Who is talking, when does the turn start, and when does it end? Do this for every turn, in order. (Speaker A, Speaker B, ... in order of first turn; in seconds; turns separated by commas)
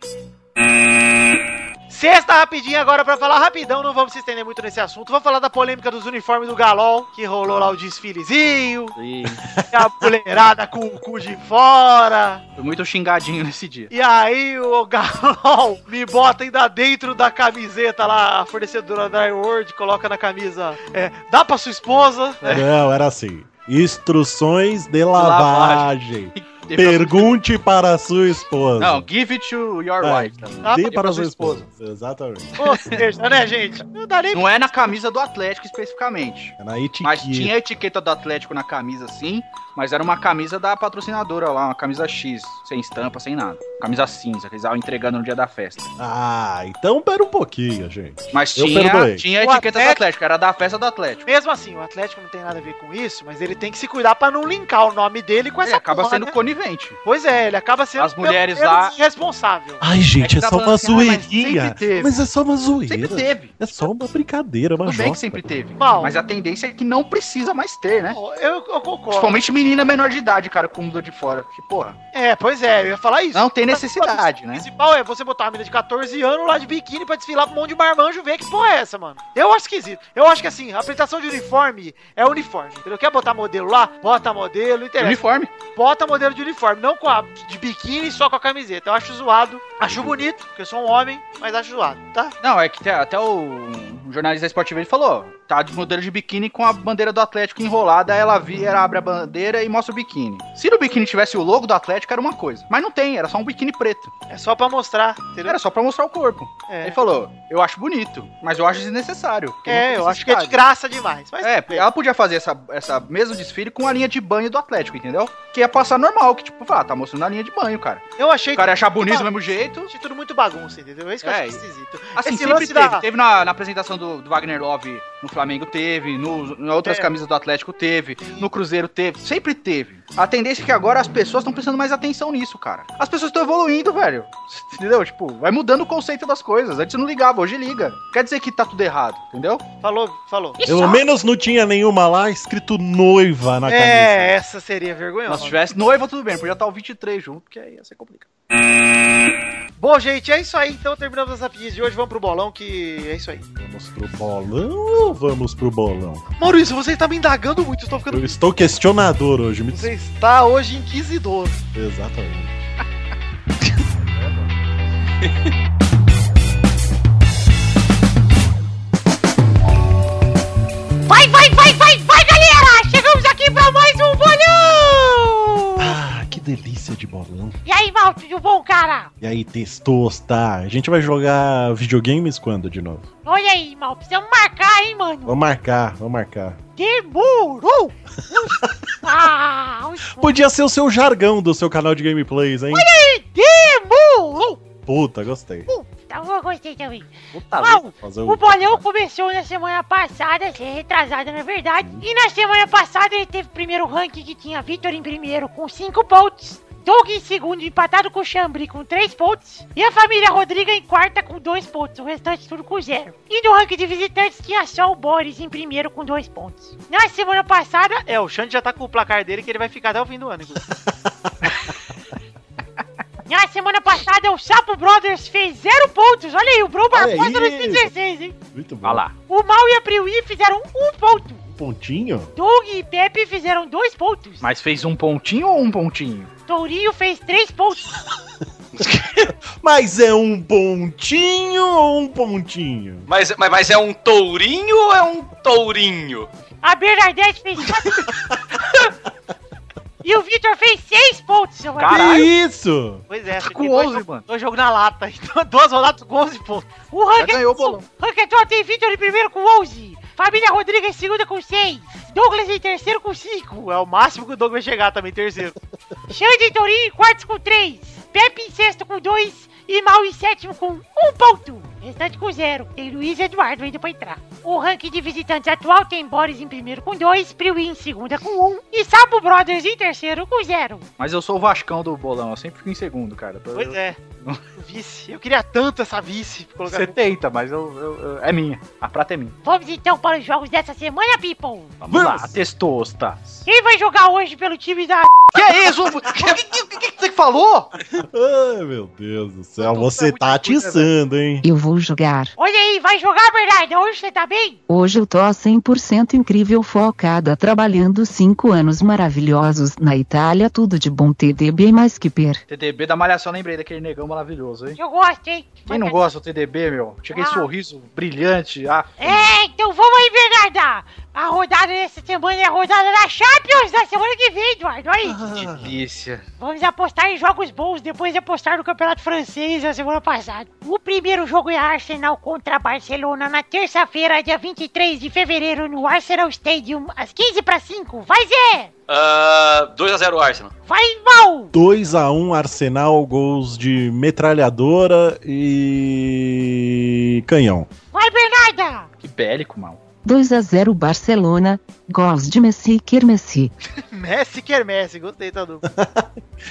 Speaker A: 1.9-8.9, Speaker B: 8.9-9.4, Speaker C: 9.4-10.1, Speaker A: 9.7-12.4, Speaker B: 12.6-13.9, Speaker A: 13.9-22.5, Speaker C: 22.5-29.1, Speaker B: 25.1-27.4, Speaker B: 28.8-31.6, Speaker C: 30.0-32.6, Speaker A: 30.6-30.9, Speaker A: 32.6-34.5, Speaker B: 34.3-45.9, Speaker C: 36.6-37.5, Speaker C: 46.0-49.2, Speaker B: 48.3-51.2, Speaker A: 49.4-50.0, Speaker A: 51.2-56.4, Speaker B: 55.6-57.0, Speaker A: 57.0-59.8, Speaker B: 58.0-58.9, Speaker C: 59.8-65.4, Speaker B: 60.2-62.1, Speaker B: 62.9-63.6, Speaker B: 64.8-68.2, Speaker A: 65.8-66.2, Speaker A: 68.1-69.4, Speaker B: 69.1-72.0, Speaker A: 72.1-92.3, Speaker B: 73.3-74.7, Speaker B: 85.0-85.5, Speaker C: 89.8-90.2, Speaker B: 92.4-104.1, Speaker A: 104.3-105.6, Speaker B: 105.4-110.6, Speaker A: 106.7-107.0, Speaker A: 109.7-111.9, Speaker B: 111.4-119.9, Speaker A: 118.2-123.0, Speaker B: 121.2-121.6, Speaker B: 122.1-139.6, Speaker A: 126.8-127.1, Speaker A: 128.2-128.5, Speaker A: 139.8-140.6, Speaker D: 140.6-141.0, Speaker C: 140.6-144.4, Speaker A: 143.7-145.6, Speaker B: 145.3-148.3, Speaker A: 149.8-153.4, Speaker C: 153.6-156.2, Speaker A: 156.4-158.4, Speaker C: 158.1-159.9, Speaker A: 159.7-161.6, Speaker C: 161.7-162.6, Speaker D: 171.1-176.0, Speaker C: 175.8-177.6, Speaker D: 177.6-179.1, Speaker C: 179.2-183.1, Speaker D: 183.2-185.4, Speaker C: 185.2-186.6, Speaker D: 186.8-190.4, Speaker C: 188.3-188.8, Speaker C: 190.1-192.8, Speaker D: 192.7-194.6, Speaker C: 194.8-195.7, Speaker D: 195.7-218.0, Speaker C: 197.3-198.8, Speaker A: 218.1-220.7, Speaker D: 223.3-228.4, Speaker C: 226.9-227.9, Speaker C: 228.5-229.0, Speaker B: 228.8-229.2, Speaker D: 229.2-231.4, Speaker C: 231.6-232.3, Speaker D: 232.3-234.5, Speaker B: 234.4-236.3, Speaker D: 236.5-237.9, Speaker E: 238.7-239.3, Speaker C: 239.6-243.1, Speaker E: 243.1-246.3, Speaker D: 246.6-248.0, Speaker D: 250.0-252.3, Speaker B: 251.8-252.2, Speaker C: 251.9-253.0, Speaker A: 253.1-256.7, Speaker B: 253.4-254.2, Speaker D: 256.9-263.4, Speaker B: 257.2-257.8, Speaker A: 263.3-265.6, Speaker D: 266.1-280.9, Speaker B: 281.0-284.4, Speaker A: 283.5-284.0, Speaker A: 284.5-287.0, Speaker B: 286.6-289.4, Speaker D: 289.4-291.9, Speaker B: 291.8-293.4, Speaker C: 291.9-292.3, Speaker D: 293.4-295.3, Speaker B: 295.3-297.7, Speaker C: 298.0-301.4, Speaker B: 299.7-300.8, Speaker F: 301.4-302.3, Speaker D: 302.4-304.6, Speaker F: 304.7-312.4, Speaker B: 312.5-314.8, Speaker D: 314.8-316.1, Speaker B: 315.6-319.2, Speaker D: 317.1-317.5, Speaker D: 319.0-325.2, Speaker C: 325.0-325.8, Speaker B: 325.4-326.2, Speaker D: 326.4-338.7, Speaker E: 338.9-340.5, Speaker D: 340.7-341.5, Speaker C: 341.5-347.7, Speaker D: 347.9-348.9, Speaker B: 349.0-349.8, Speaker F: 350.0-353.5, Speaker A: 353.9-355.6, Speaker C: 355.7-356.1